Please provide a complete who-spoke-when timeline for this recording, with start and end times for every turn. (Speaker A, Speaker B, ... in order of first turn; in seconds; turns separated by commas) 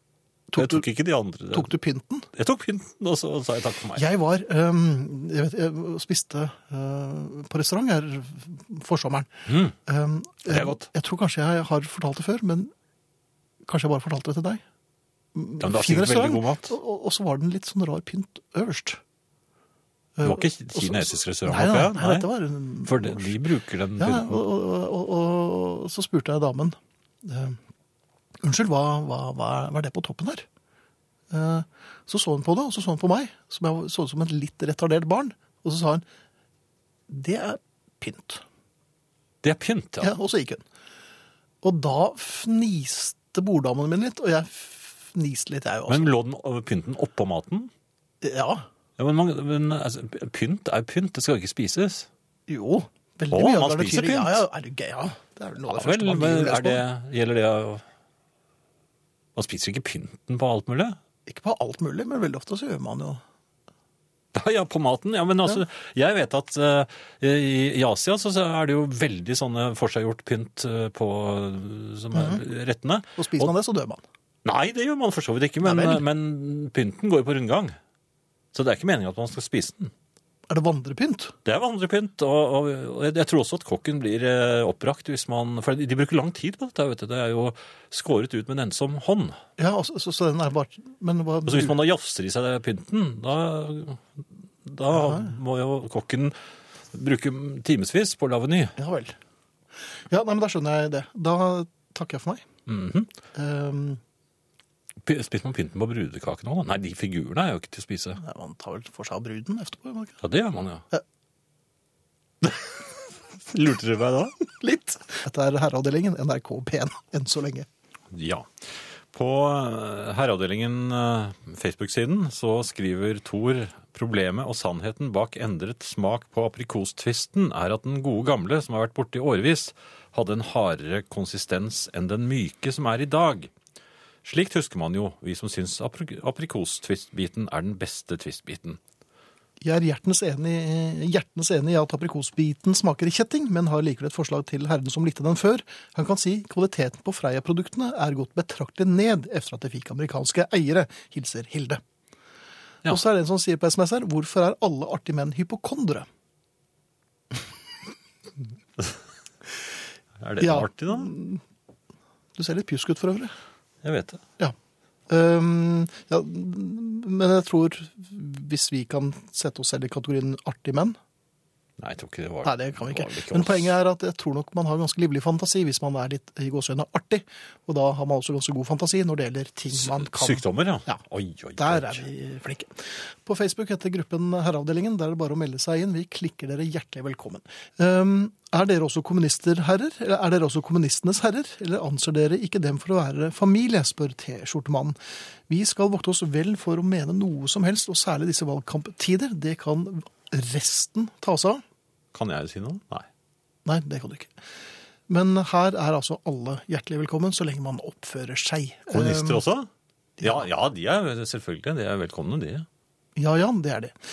Speaker A: 0.5-0.8, Speaker B: 0.6-1.7, Speaker A: 1.5-2.3, Speaker B: 2.3-4.0, Speaker A: 4.0-12.7, Speaker B: 9.5-9.7, Speaker B: 10.5-10.8, Speaker A: 13.6-14.6, Speaker A: 15.3-19.0, Speaker B: 15.6-16.7, Speaker A: 20.2-23.3, Speaker B: 20.2-22.3, Speaker B: 22.8-24.4, Speaker A: 24.0-27.6, Speaker A: 28.4-30.4, Speaker A: 31.3-36.0, Speaker A: 37.1-38.4, Speaker B: 39.4-40.1, Speaker A: 40.0-40.6, Speaker A: 41.6-46.1, Speaker B: 45.9-47.7, Speaker A: 48.2-48.6, Speaker B: 49.0-52.1, Speaker A: 52.5-56.8, Speaker B: 53.3-54.4, Speaker B: 55.7-57.8, Speaker B: 59.4-61.0, Speaker A: 61.3-63.2, Speaker B: 64.3-73.5, Speaker A: 72.1-72.4, Speaker A: 73.2-74.0, Speaker B: 74.4-77.8, Speaker A: 75.6-76.0, Speaker B: 78.5-79.9, Speaker A: 80.5-81.3, Speaker B: 81.4-89.4, Speaker A: 89.6-91.8, Speaker B: 91.5-96.3, Speaker A: 94.9-95.3, Speaker B: 96.9-98.8, Speaker A: 98.8-99.2, Speaker A: 100.1-102.4, Speaker B: 102.7-103.1, Speaker A: 103.3-104.0, Speaker B: 105.0-108.2, Speaker A: 108.2-110.2, Speaker B: 110.2-110.8, Speaker B: 112.4-112.8, Speaker B: 113.5-114.4, Speaker A: 114.5-117.7, Speaker B: 118.1-118.5, Speaker B: 119.1-133.5, Speaker B: 134.2-138.8, Speaker A: 139.6-151.8, Speaker A: 152.8-156.1, Speaker B: 160.2-161.1, Speaker A: 160.4-161.4, Speaker A: 162.3-163.3, Speaker B: 163.8-164.2, Speaker A: 165.1-171.0, Speaker B: 171.8-173.7, Speaker A: 172.4-181.0, Speaker B: 179.8-182.0, Speaker A: 181.6-195.0, Speaker A: 195.5-201.6, Speaker B: 202.1-203.1, Speaker A: 203.6-204.3, Speaker A: 205.1-209.4, Speaker B: 208.9-209.7, Speaker A: 210.2-210.5, Speaker B: 210.2-212.7, Speaker A: 213.2-213.9